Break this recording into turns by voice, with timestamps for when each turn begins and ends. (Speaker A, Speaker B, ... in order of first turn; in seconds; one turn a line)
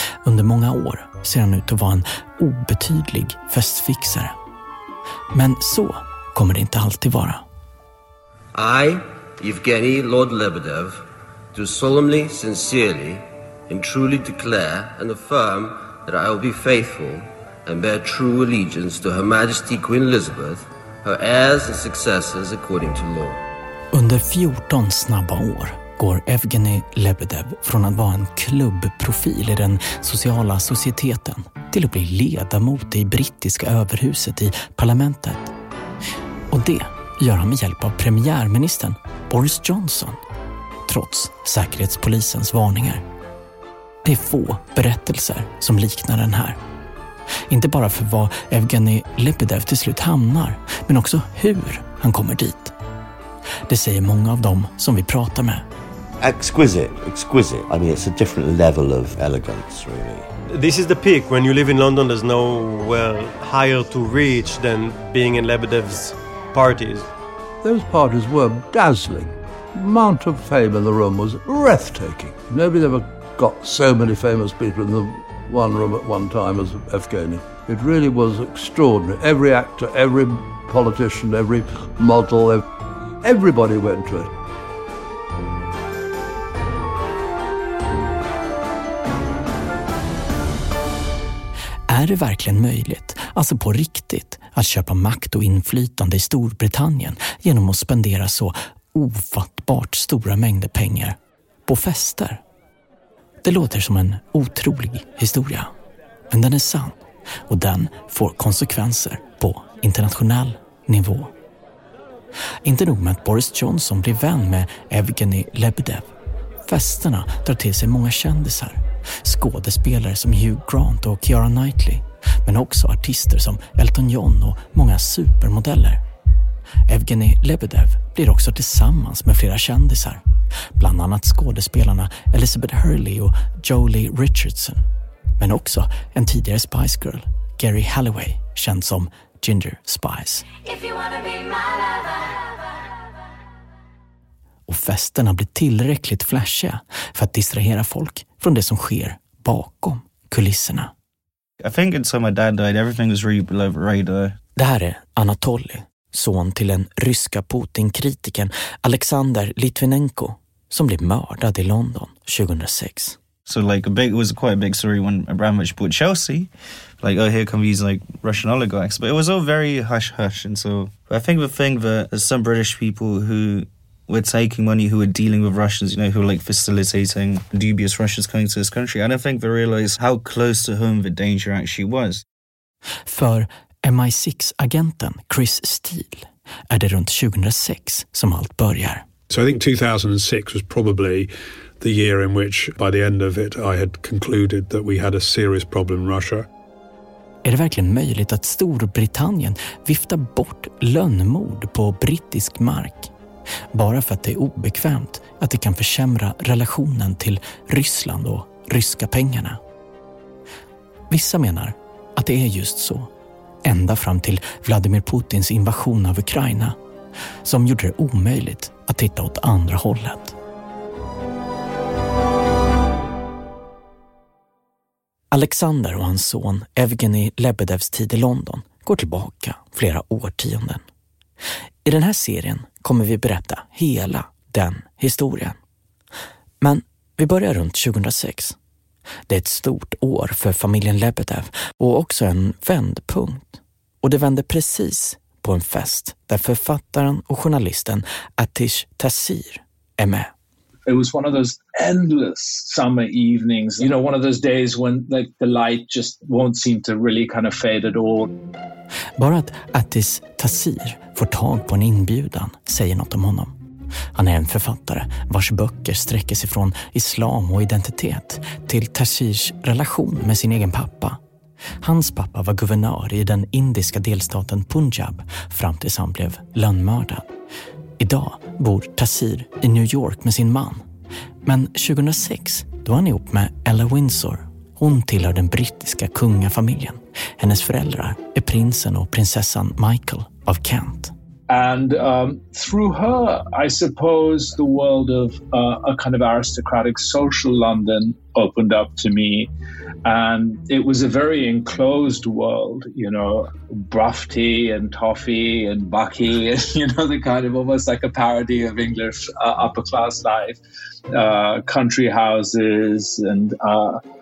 Speaker A: 0.2-4.3
Speaker A: 5.3-7.4
Speaker B: 8.5-23.4
Speaker A: 23.9-35.5
Speaker A: 36.5-40.2
Speaker A: 40.9-43.0
Speaker A: 44.0-46.6
Speaker A: 47.5-52.7
Speaker A: 53.7-55.6
Speaker C: 56.2-60.2
Speaker D: 60.5-67.1
Speaker E: 67.6-82.6
Speaker E: 83.2-84.3
Speaker A: 91.9-102.4
Speaker A: 103.4-105.7
Speaker A: 106.3-111.3
Speaker A: 112.6-116.1
Speaker A: 116.7-126.0
Speaker A: 126.9-130.2
Speaker A: 130.8-134.8
Speaker A: 135.4-140.5
Speaker A: 144.7-150.9
Speaker F: 151.6-154.4
Speaker A: 154.6-163.2
Speaker F: 163.5-182.2
Speaker A: 183.1-189.0
Speaker G: 189.3-196.4
Speaker A: 197.4-203.1
Speaker A: 203.7-209.6
Speaker A: 211.1-213.1
Speaker A: 213.6-216.8
Speaker A: 217.4-220.3
Speaker A: 225.3-230.8
Speaker A: 231.8-235.6
Speaker A: 236.6-238.6
Speaker A: 239.3-250.3
Speaker H: 250.8-258.3
Speaker A: 259.2-263.5
Speaker A: 264.1-271.2
Speaker A: 271.8-277.3
Speaker A: 278.0-280.8
Speaker A: 281.4-291.1
Speaker H: 291.5-299.5
Speaker H: 300.0-310.6
Speaker H: 311.1-314.0